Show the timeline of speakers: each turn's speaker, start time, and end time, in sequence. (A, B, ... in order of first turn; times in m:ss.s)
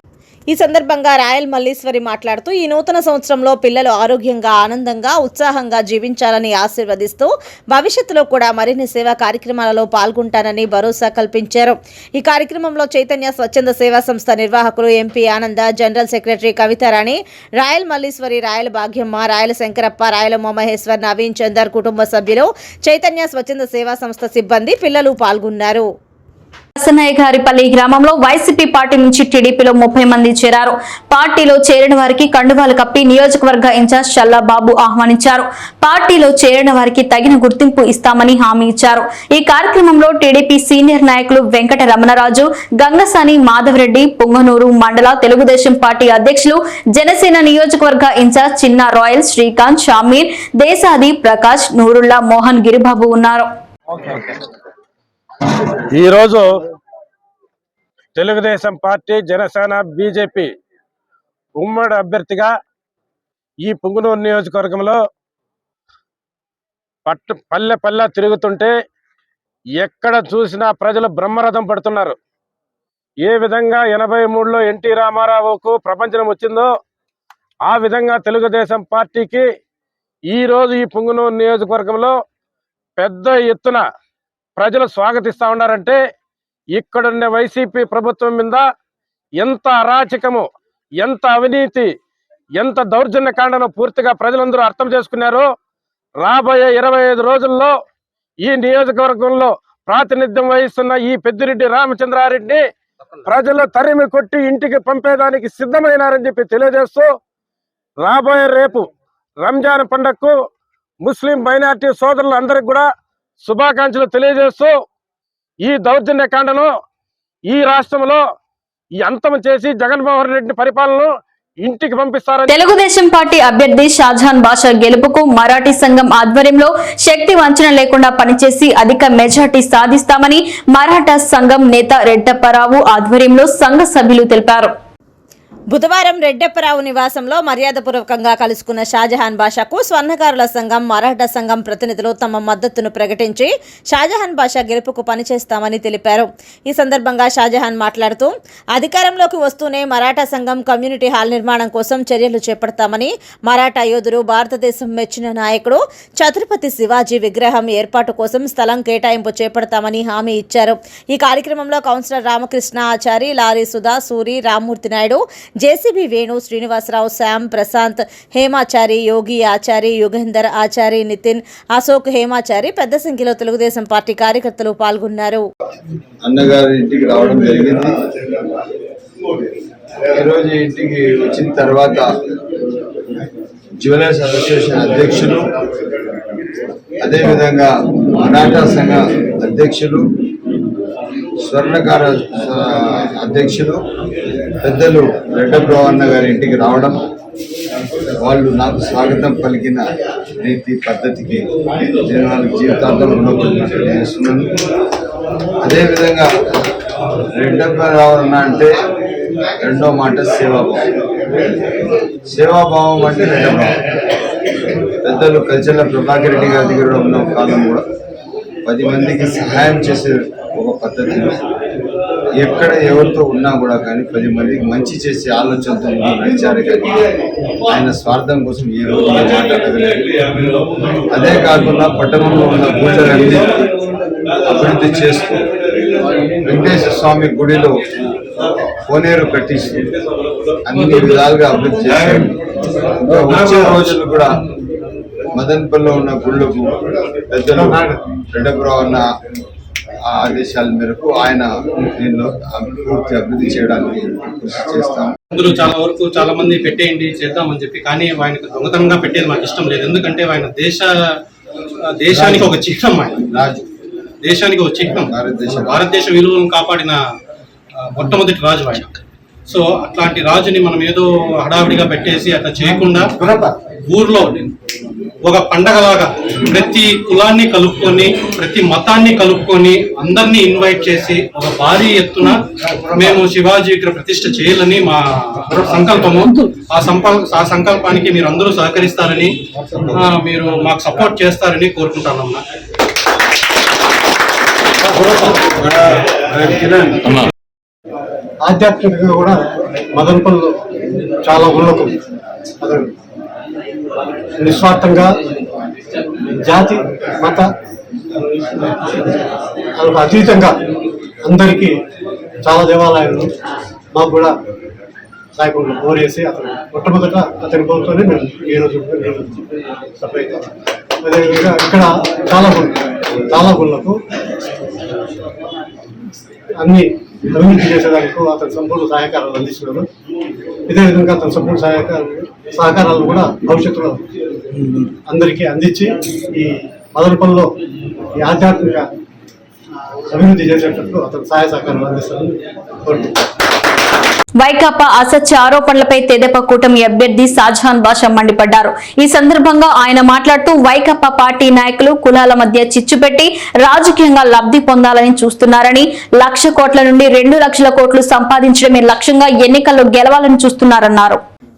0:00.5-0:25.9 A
0:26.8-0:53.5 B
0:55.9-0:56.5 C
0:58.2-1:00.5 C
1:01.6-1:02.5 C
1:03.6-1:05.0 C
1:07.1-1:08.7 C
1:09.8-1:12.2 C
1:13.2-1:16.7 C
1:17.6-1:19.5 C
1:20.3-1:22.2 C
1:23.0-1:23.8 C
1:24.6-1:26.0 C
1:26.7-1:28.7 C
1:29.4-1:30.5 C
1:31.0-1:31.9 C
1:32.6-1:35.5 C
1:36.2-1:37.8 C
1:38.4-1:42.6 C
1:43.3-1:47.1 C
1:48.0-1:48.9 C
1:49.4-1:50.4 C
1:51.0-1:52.9 C
1:53.4-1:54.8 C
1:55.6-1:56.8 C
1:57.5-1:58.2 C
1:59.0-2:02.6 C
2:02.5-2:14.7 B
2:15.7-2:55.5 A
2:56.2-2:58.0 D
3:00.1-3:02.1 D
3:03.8-3:05.5 D
3:07.0-3:10.0 D
3:11.5-3:13.8 D
3:14.6-3:17.0 D
3:18.2-3:19.9 D
3:20.4-3:21.5 D
3:22.0-3:24.5 D
3:25.6-3:26.3 D
3:27.4-3:28.7 D
3:29.6-3:30.9 D
3:32.3-3:33.8 D
3:35.0-3:37.8 D
3:38.7-3:41.4 D
3:42.4-3:47.0 D
3:47.7-3:50.3 D
3:51.1-3:53.6 D
3:54.5-3:55.4 D
3:56.4-3:57.8 D
3:58.9-3:59.8 D
4:00.6-4:02.3 D
4:03.0-4:04.4 D
4:05.3-4:09.0 D
4:07.5-4:08.0 E
4:10.1-4:15.1 D
4:15.3-4:20.9 F
4:22.0-4:23.2 F
4:22.1-4:22.5 D
4:23.3-4:23.6 D
4:24.2-4:25.1 F
4:25.1-4:25.8 D
4:25.7-4:27.0 F
4:27.9-4:33.1 F
4:33.9-4:34.4 F
4:35.2-4:42.4 F
4:43.0-4:49.4 F
4:49.9-4:52.4 F
4:54.9-4:55.6 E
4:56.9-4:57.2 D
4:58.4-4:59.4 E
4:59.9-5:00.5 E
5:01.2-5:02.0 E
5:02.6-5:02.9 E
5:04.4-5:05.2 E
5:06.4-5:07.5 E
5:08.5-5:09.2 E
5:09.8-5:10.6 E
5:11.2-5:11.8 E
5:12.4-5:13.3 E
5:14.0-5:14.3 E
5:15.4-5:19.4 E
5:20.0-5:20.5 E
5:21.0-5:22.8 E
5:23.3-5:24.0 E
5:26.6-5:29.9 E
5:30.7-5:34.0 E
5:34.6-5:37.5 E
5:38.2-5:38.8 E
5:40.1-5:42.4 E
5:44.4-6:01.2 B